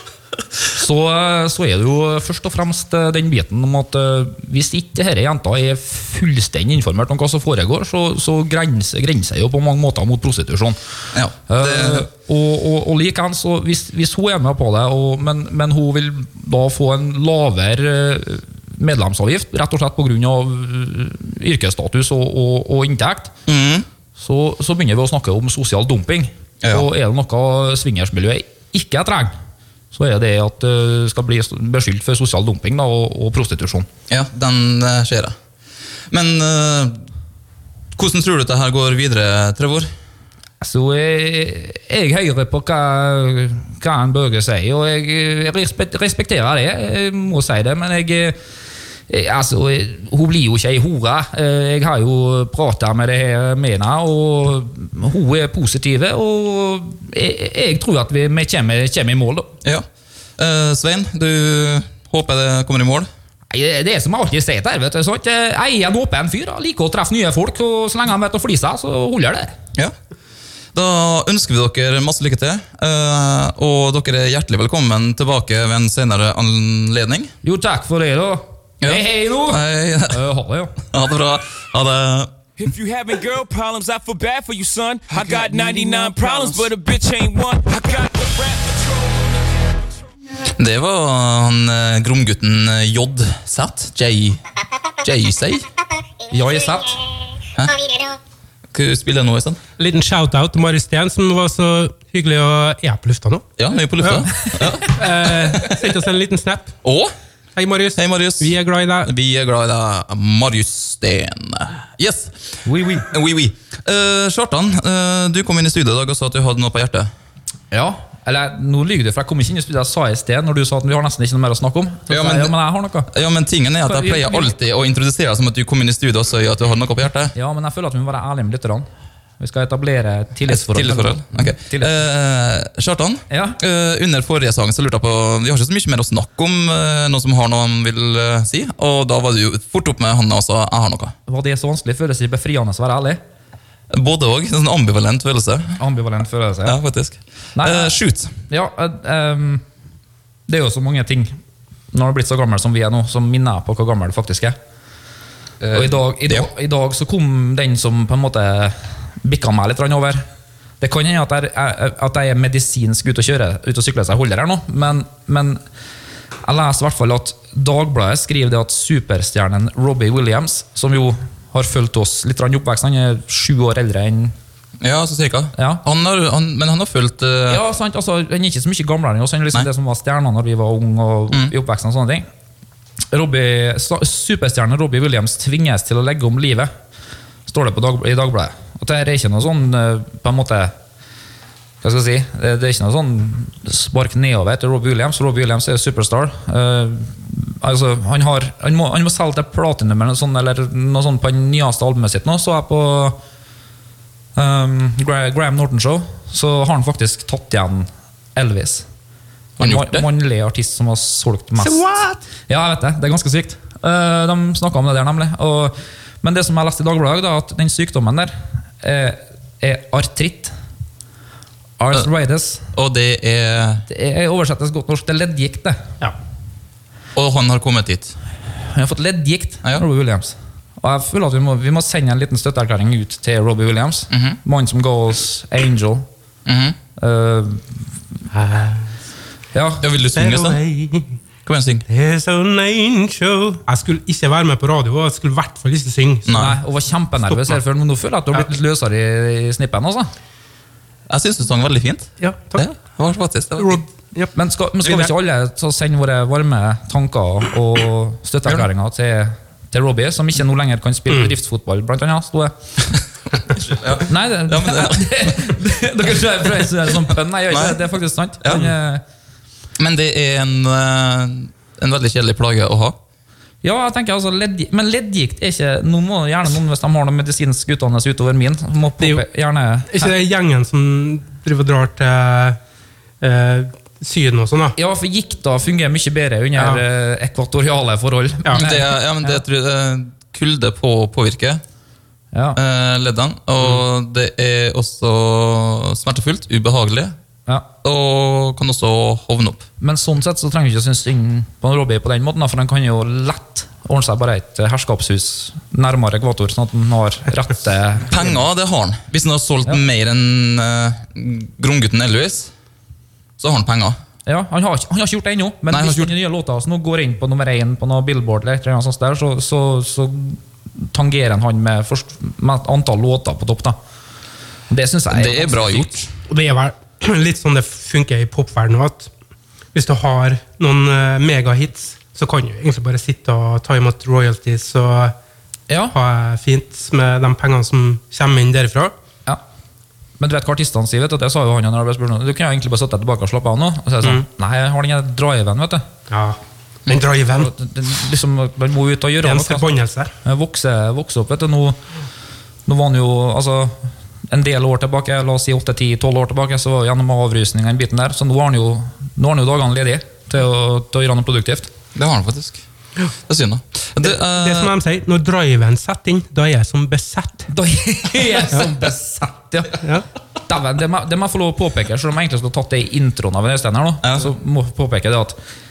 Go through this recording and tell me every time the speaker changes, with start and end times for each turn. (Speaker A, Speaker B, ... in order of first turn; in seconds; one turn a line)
Speaker A: 0.7-10.8
Speaker B: 11.1-12.1
Speaker A: 11.5-23.3
Speaker B: 23.5-23.9
Speaker A: 24.2-29.4
Speaker B: 26.6-26.9
Speaker A: 29.9-33.9
Speaker B: 34.1-35.4
Speaker B: 36.1-37.1
Speaker B: 38.0-39.9
Speaker A: 40.6-48.4
Speaker A: 49.1-59.5
Speaker B: 60.4-63.1
Speaker A: 63.5-69.5
Speaker B: 70.7-77.3
Speaker A: 77.4-80.8
Speaker B: 78.8-80.2
Speaker B: 80.9-82.3
Speaker C: 82.6-90.0
Speaker A: 85.8-86.4
Speaker B: 90.5-95.7
Speaker A: 96.3-97.2
Speaker B: 97.6-98.2
Speaker B: 98.7-99.6
Speaker D: 99.8-106.8
Speaker B: 103.6-105.7
Speaker B: 106.8-107.1
Speaker D: 107.6-109.1
Speaker B: 108.0-117.1
Speaker A: 112.7-113.1
Speaker A: 117.7-123.1
Speaker B: 122.1-122.5
Speaker B: 123.1-127.3
Speaker A: 123.8-124.5
Speaker A: 127.3-128.9
Speaker A: 129.4-131.9
Speaker B: 130.5-141.2
Speaker A: 133.3-133.6
Speaker A: 141.3-143.2
Speaker B: 143.9-145.8
Speaker A: 145.8-146.8
Speaker B: 146.7-148.3
Speaker A: 147.6-149.6
Speaker A: 150.5-151.3
Speaker A: 151.9-154.6
Speaker A: 155.6-160.2
Speaker A: 160.8-165.6
Speaker A: 166.4-174.3
Speaker B: 174.8-177.6
Speaker A: 175.6-175.8
Speaker A: 177.5-182.3
Speaker A: 183.1-186.7
Speaker A: 187.5-190.7
Speaker A: 191.8-203.2
Speaker A: 204.4-208.8
Speaker B: 209.6-210.1
Speaker A: 209.6-211.9
Speaker D: 211.6-212.2
Speaker A: 212.5-220.5
Speaker A: 221.8-222.7
Speaker B: 222.7-223.8
Speaker A: 223.9-225.8
Speaker B: 227.2-228.2
Speaker A: 228.7-236.1
Speaker B: 234.1-234.4
Speaker B: 236.5-236.8
Speaker A: 237.0-237.8
Speaker D: 238.3-238.9
Speaker A: 239.5-239.8
Speaker B: 239.8-240.6
Speaker D: 240.2-241.2
Speaker B: 241.5-241.8
Speaker D: 241.9-246.5
Speaker B: 246.3-246.6
Speaker A: 246.3-250.1
Speaker B: 251.1-253.8
Speaker D: 252.2-252.7
Speaker D: 253.6-254.3
Speaker A: 254.3-262.5
Speaker B: 263.6-265.5
Speaker A: 264.1-269.0
Speaker B: 267.5-267.8
Speaker B: 268.4-268.7
Speaker B: 269.8-273.0
Speaker A: 273.6-280.1
Speaker D: 279.9-282.6
Speaker D: 283.2-284.8
Speaker A: 284.8-289.4
Speaker D: 286.6-286.8
Speaker B: 288.5-291.6
Speaker A: 292.3-292.6
Speaker B: 292.6-297.2
Speaker B: 297.8-299.6
Speaker A: 299.8-308.4
Speaker B: 308.1-312.5
Speaker B: 313.4-314.0
Speaker A: 314.3-323.8
Speaker B: 315.7-316.1
Speaker A: 324.7-326.1
Speaker B: 325.1-326.1
Speaker D: 326.3-329.1
Speaker D: 329.7-335.1
Speaker A: 335.7-335.9
Speaker D: 335.9-338.9
Speaker A: 340.2-345.9
Speaker D: 346.1-347.5
Speaker A: 347.3-351.8
Speaker D: 349.2-350.1
Speaker A: 352.7-361.7
Speaker B: 361.9-362.6
Speaker B: 363.3-364.7
Speaker D: 364.0-367.5
Speaker A: 367.5-369.8
Speaker A: 370.5-375.4
Speaker B: 374.0-374.3